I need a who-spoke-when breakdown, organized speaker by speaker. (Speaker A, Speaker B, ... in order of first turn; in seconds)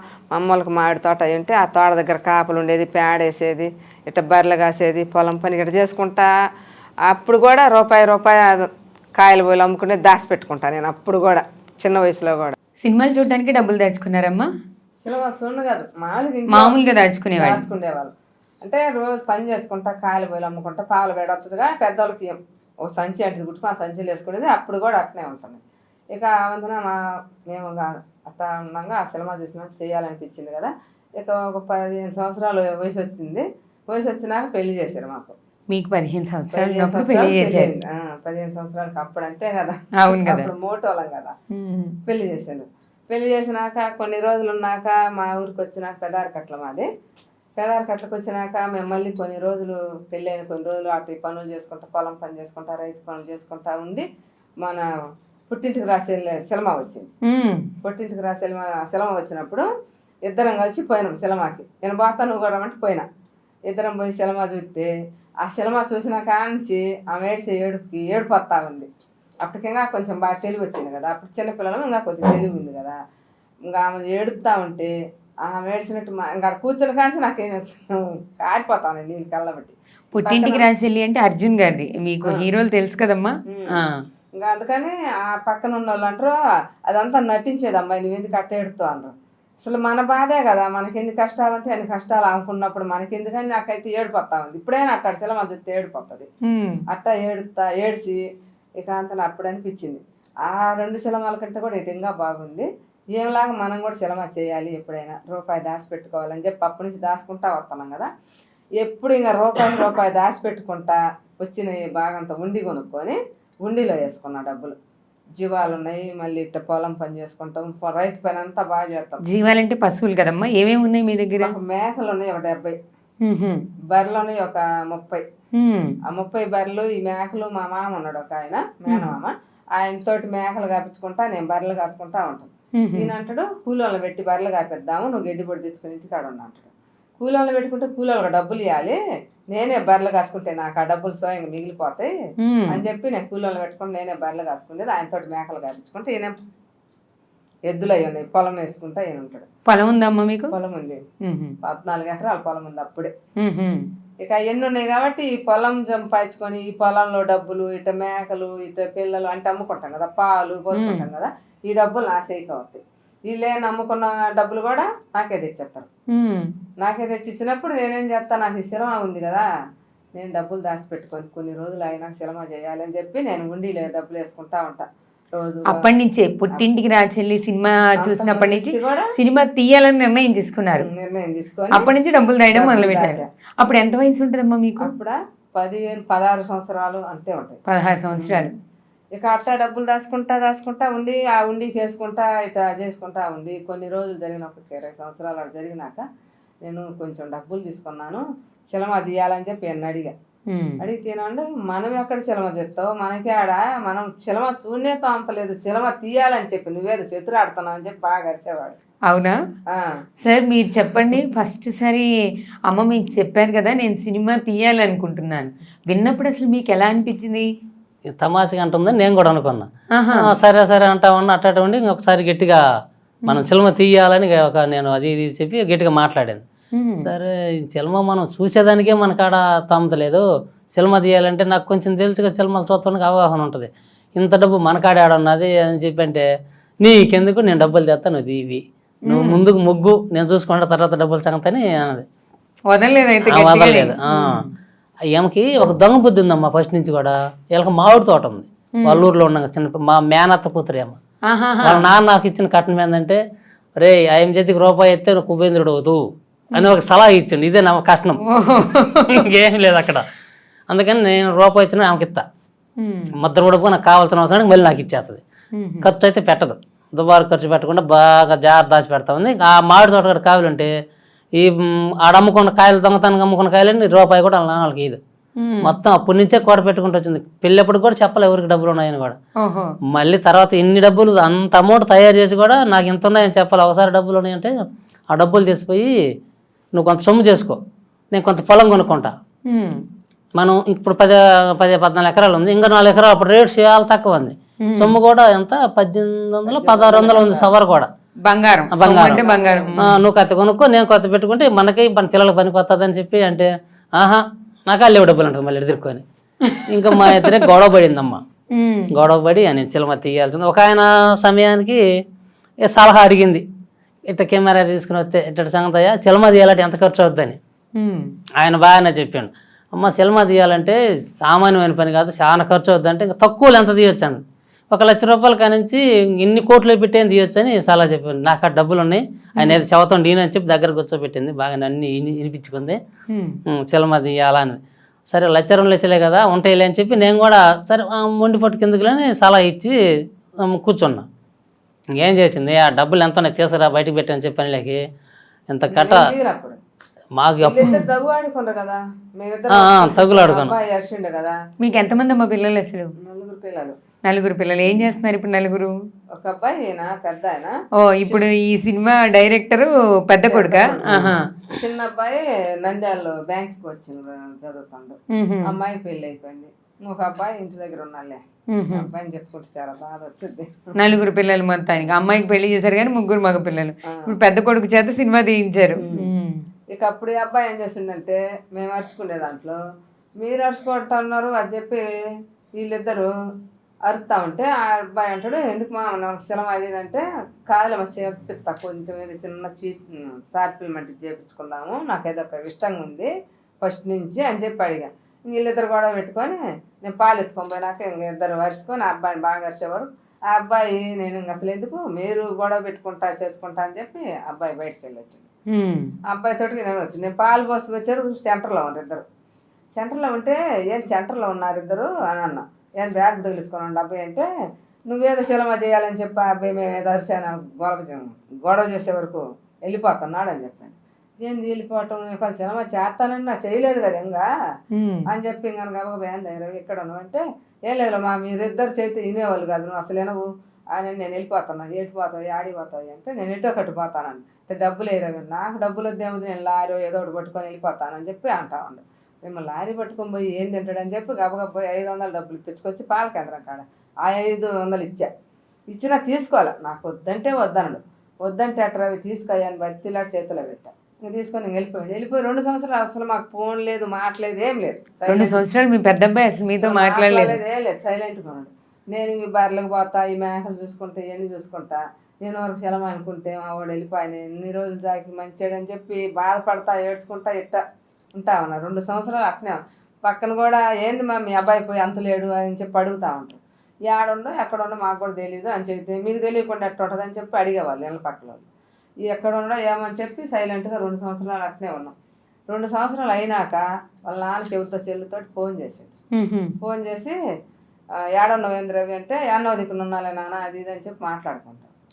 Speaker A: 0.3-6.3, 7.1-12.6, 15.0-16.8, 17.3-25.6, 26.1-27.0, 27.5-35.4, 36.5-41.3, 42.1-46.9, 47.6-54.0, 55.5-57.1, 57.8-59.7, 60.3-63.0, 63.7-64.9, 65.4-68.9, 69.4-73.0, 73.7-74.9, 75.5-80.6, 83.5-83.8, 84.3-86.3, 86.9-96.3, 96.9-98.2, 98.8-108.1, 108.8-114.7, 115.4-119.2, 121.4-122.8, 123.9-125.2, 126.1-139.0, 139.5-142.1, 142.7-146.3, 147.7-149.5, 150.5-151.0, 151.6-153.1, 154.2-165.9, 166.8-169.4, 170.2-175.8, 178.0-179.1, 180.8-181.8, 182.5-183.2, 184.8-187.6, 188.1-188.4, 189.2-196.0, 196.6-200.1, 200.8-208.8, 296.5-297.5, 299.0-299.7, 345.7-346.6, 347.4-351.4, 353.0-353.8, 356.1-358.2, 360.2-370.7, 373.9-374.1, 375.8-376.1, 376.7-379.6, 380.2-381.8, 382.6-383.1, 383.9-393.1, 393.6-405.2, 406.1-409.0, 409.7-414.3, 414.9-424.2, 425.1-445.1, 445.7-455.4, 456.5-467.6, 468.2-478.4, 479.1-481.9, 482.5-485.9, 486.6-487.1, 488.1-491.7
Speaker B: 12.8-14.5, 16.5-17.6, 35.7-37.7, 40.0-40.5, 41.5-42.0, 57.2-57.6, 80.1-83.8, 96.4-96.8, 119.3-121.5, 123.2-123.6, 125.6-125.9, 132.8-133.1, 142.4-142.8, 149.7-150.5, 151.2-151.5, 153.4-153.8, 160.7-161.1, 166.1-166.5, 175.7-180.8, 181.7-184.9, 187.7-188.5, 200.5-200.8, 209.1-209.4, 210.2-212.1, 212.7-217.5, 219.9-220.3, 226.7-227.1, 239.1-239.4, 242.7-244.5, 248.8-249.1, 251.3-251.9, 258.2-259.2, 262.8-263.1, 265.5-265.9, 275.4-275.7, 279.4-279.7, 289.5-289.8, 294.6-295.0, 298.2-300.0, 306.4-307.5, 308.5-308.9, 317.8-318.1, 333.1-333.4, 351.6-352.9, 354.0-355.7, 357.8-361.2, 365.1-365.5, 368.5-368.9, 370.8-376.4, 405.5-405.9, 424.7-425.1, 455.1-457.4, 486.1-486.5
Speaker C: 218.2-222.6, 223.3-226.4, 227.0-236.2, 236.8-242.1, 243.3-244.3, 245.1-251.0, 251.6-253.2, 253.8-258.2, 259.1-260.1, 260.7-262.2, 263.1-265.2, 265.8-270.7, 271.4-275.0, 275.6-279.2, 279.9-284.5, 285.1-285.9, 286.7-287.6, 288.1-289.1, 290.4-297.9, 298.7-299.2, 299.8-306.0, 306.7-308.2, 308.9-311.8, 312.7-313.4, 314.1-317.4, 318.4-332.8, 333.5-334.6, 335.1-339.7, 340.4-341.1, 341.9-344.8, 345.5-346.0, 347.2-347.8, 349.5-350.5, 360.9-361.2